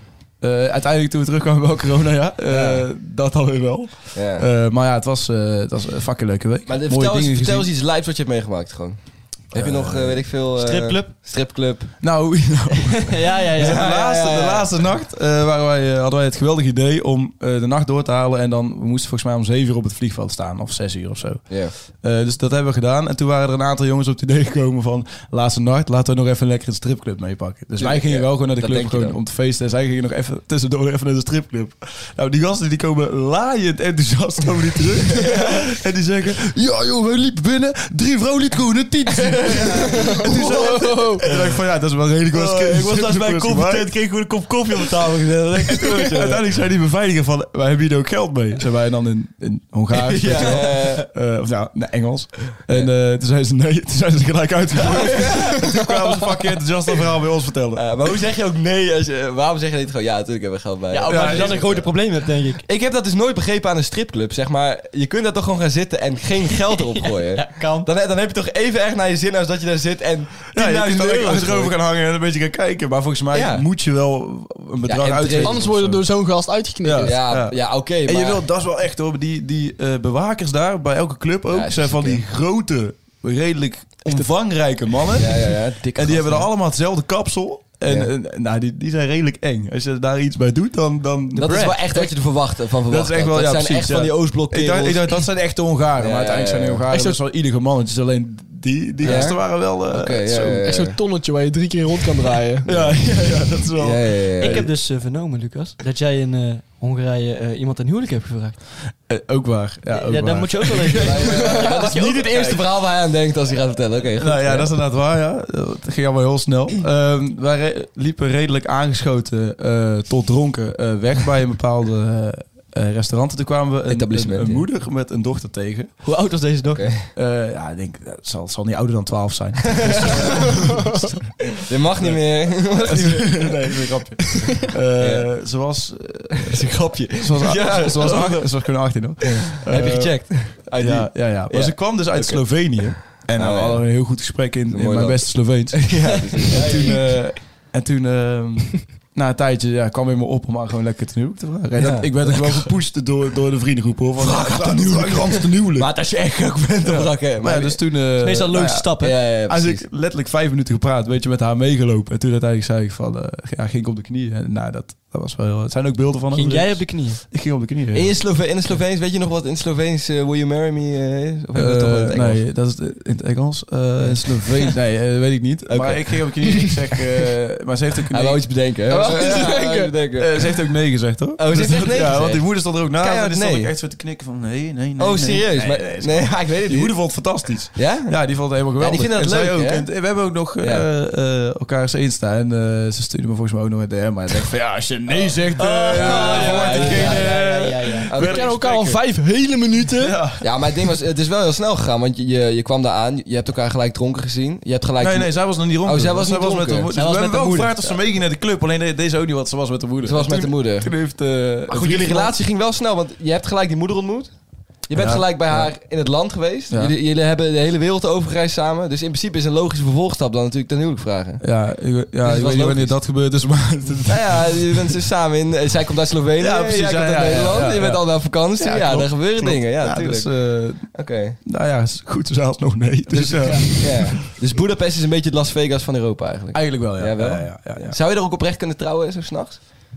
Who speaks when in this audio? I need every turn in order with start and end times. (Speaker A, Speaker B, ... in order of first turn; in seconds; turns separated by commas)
Speaker A: 0.4-7.7, Speaker B: 2.5-2.8, Speaker B: 4.1-4.5, Speaker B: 6.7-9.0, Speaker B: 9.5-11.9, Speaker A: 9.6-10.3, Speaker C: 10.5-11.1, Speaker A: 12.0-43.9, Speaker C: 13.0-13.9, Speaker B: 13.6-14.7, Speaker B: 21.5-21.7, Speaker B: 27.8-29.2, Speaker B: 35.2-35.7, Speaker B: 39.2-41.6, Speaker D: 39.9-41.3, Speaker B: 42.3-46.4, Speaker A: 44.7-57.9, Speaker B: 49.9-51.1, Speaker B: 54.8-55.9, Speaker B: 57.8-62.0, Speaker C: 60.9-62.6, Speaker A: 61.0-61.6, Speaker B: 62.6-71.7, Speaker C: 66.7-67.9, Speaker A: 70.5-76.0, Speaker B: 73.3-73.7, Speaker B: 74.9-75.6, Speaker D: 75.4-77.2, Speaker A: 76.8-92.1, Speaker B: 77.0-78.4, Speaker B: 81.5-82.2, Speaker B: 85.2-86.5, Speaker B: 91.3-95.2, Speaker A: 92.9-100.6, Speaker B: 96.0-96.8, Speaker D: 96.9-97.2, Speaker B: 99.0-101.0, Speaker D: 100.4-102.7, Speaker A: 102.7-104.7, Speaker B: 102.7-103.0, Speaker B: 103.8-104.7, Speaker C: 104.4-108.6, Speaker A: 109.1-112.6, Speaker C: 109.9-112.5, Speaker B: 110.9-114.7, Speaker A: 114.2-125.9, Speaker B: 123.9-124.6, Speaker C: 126.0-126.9, Speaker B: 126.8-127.1, Speaker A: 127.2-155.9, Speaker B: 129.8-130.5, Speaker B: 131.6-133.6, Speaker B: 135.0-135.3, Speaker B: 136.4-138.5, Speaker B: 139.2-143.8, Speaker B: 144.7-147.2, Speaker C: 146.5-147.0, Speaker B: 151.8-152.7, Speaker B: 154.2-157.8, Speaker A: 156.8-168.2, Speaker C: 158.2-159.2, Speaker B: 159.0-159.8, Speaker C: 166.3-167.2, Speaker B: 167.9-172.4, Speaker A: 171.6-178.4, Speaker B: 174.0-174.8, Speaker B: 175.7-176.3, Speaker B: 178.1-180.4, Speaker D: 178.9-179.9, Speaker A: 179.0-179.5, Speaker A: 180.2-199.0, Speaker B: 181.4-183.7, Speaker B: 185.0-186.9, Speaker B: 187.8-188.2, Speaker B: 188.8-189.9, Speaker B: 190.6-190.9, Speaker C: 195.6-198.1, Speaker B: 195.9-197.4, Speaker B: 198.1-198.5, Speaker D: 198.2-200.2, Speaker A: 200.0-200.7, Speaker B: 200.4-206.9, Speaker A: 205.0-212.4, Speaker C: 206.9-207.7, Speaker B: 210.0-210.9, Speaker B: 211.7-214.3, Speaker B: 214.9-221.4, Speaker A: 214.9-215.7, Speaker A: 221.4-225.0, Speaker B: 222.2-222.9, Speaker B: 224.1-231.4, Speaker A: 226.4-234.3, Speaker D: 233.2-233.8, Speaker B: 233.8-239.6, Speaker A: 236.5-238.0